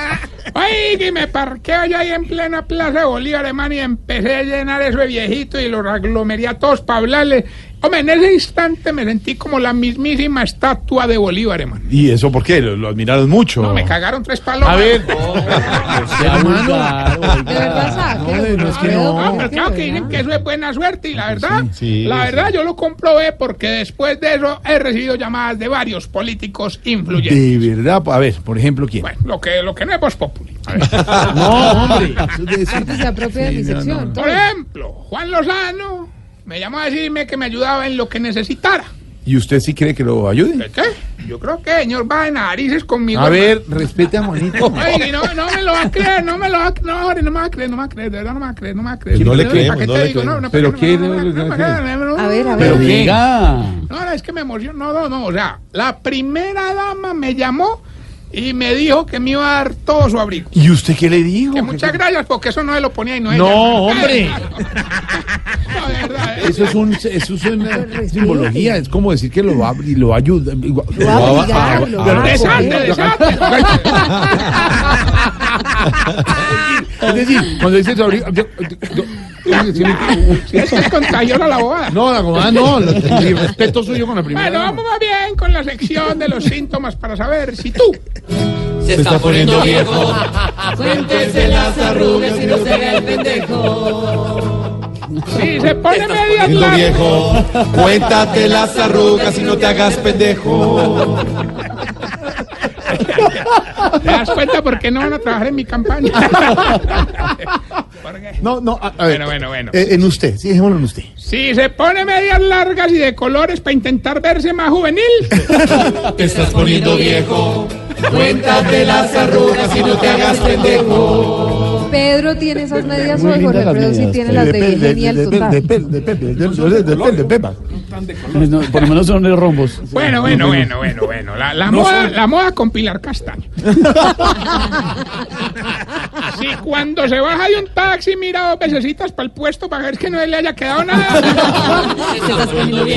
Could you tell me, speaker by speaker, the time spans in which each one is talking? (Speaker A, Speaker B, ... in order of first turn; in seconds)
Speaker A: 0.5-11.8, 13.6-15.4, 18.7-27.6, 29.0-31.2, 34.1-38.9, 40.6-43.6, 44.8-53.1, 53.9-60.6, 61.5-65.0, 65.6-66.8, 72.1-74.2, 79.5-82.0, 84.3-88.0, 95.3-97.3, 102.9-108.5, 109.1-109.8, 111.2-115.6, 129.9-133.5, 136.3-142.1
Speaker B: 11.8-14.0, 14.6-19.5, 21.1-21.7, 27.1-29.1, 31.1-34.2, 39.2-40.7, 43.1-45.1, 49.2-49.7, 50.5-51.8, 52.6-53.2, 60.5-62.0, 63.3-64.5, 66.4-74.0, 76.6-80.4, 81.9-84.8, 108.4-111.1, 115.4-116.0, 124.3-127.6, 129.9-130.7, 131.7-132.1, 133.7-134.5
Speaker C: 15.8-18.1, 52.6-53.9, 123.1-124.5, 128.1-129.9
Speaker D: 17.4-20.2, 32.7-34.4, 52.2-52.9, 67.7-68.8, 71.0-74.5, 121.8-125.7
Speaker E: 21.7-22.5, 49.1-50.5, 71.0-72.7, 74.1-74.7, 88.8-94.2, 96.4-101.4, 116.2-121.5